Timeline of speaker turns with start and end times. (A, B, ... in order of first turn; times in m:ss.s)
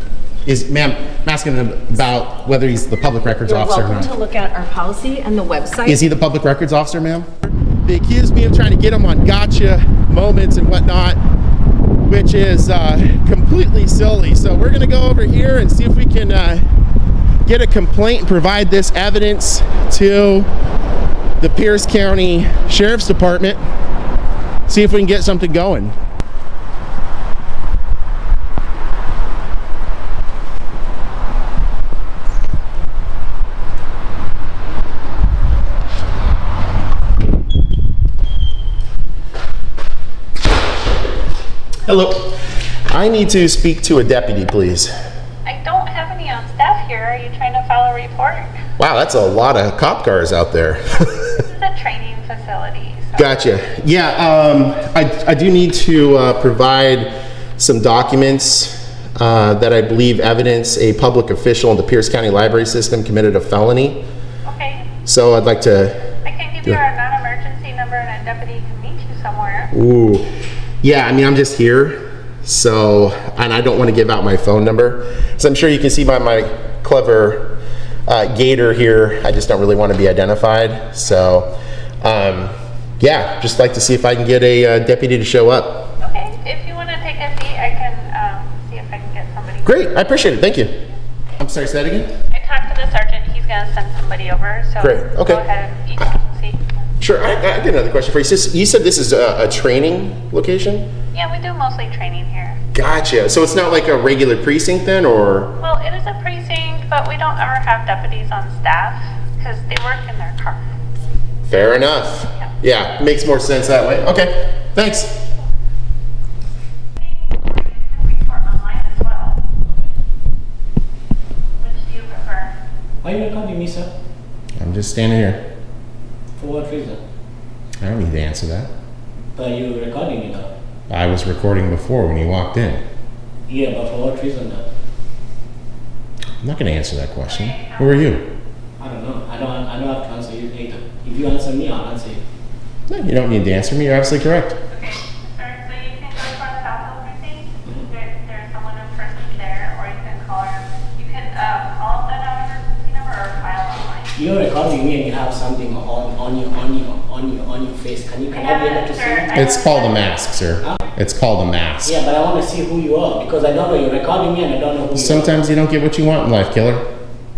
0:00.4-0:04.1 A
0:03.4-0:06.0 B
0:05.8-0:11.2 A
0:12.0-0:16.6 A
0:17.4-0:20.5 A
0:21.4-0:23.6 A
0:24.7-0:25.9 A
0:41.8-0:42.3 A
0:42.9-0:44.9 A
0:45.4-0:48.5 C
0:48.8-0:51.2 A
0:51.2-0:53.3 C
0:53.2-1:04.0 A
1:04.4-1:04.9 C
1:05.0-1:06.0 A
1:06.2-1:09.7 C
1:09.7-1:10.2 A
1:10.8-1:21.5 A
1:22.0-1:25.9 A
1:26.0-1:29.9 C
1:29.6-1:30.7 A
1:31.4-1:32.1 A
1:32.3-1:36.6 C
1:34.8-1:35.4 A
1:37.0-1:40.9 A
1:41.1-1:42.6 C
1:42.7-1:45.5 A
1:45.6-1:50.6 C
1:51.5-1:55.1 A
1:57.0-1:59.4 C
2:01.6-2:02.5 C
2:03.0-2:03.9 D
2:04.6-2:05.4 A
2:06.4-2:07.0 D
2:07.8-2:08.7 A
2:09.3-2:10.5 D
2:10.9-2:12.8 A
2:13.5-2:14.6 D
2:16.4-2:18.2 A
2:17.2-2:18.2 C
2:18.8-2:22.2 D
2:22.9-2:24.6 A
2:24.7-2:34.1 C
2:34.2-2:39.4 D
2:38.3-2:40.3 C
2:39.3-2:42.0 A
2:41.8-2:45.4 D
2:44.9-2:46.8 A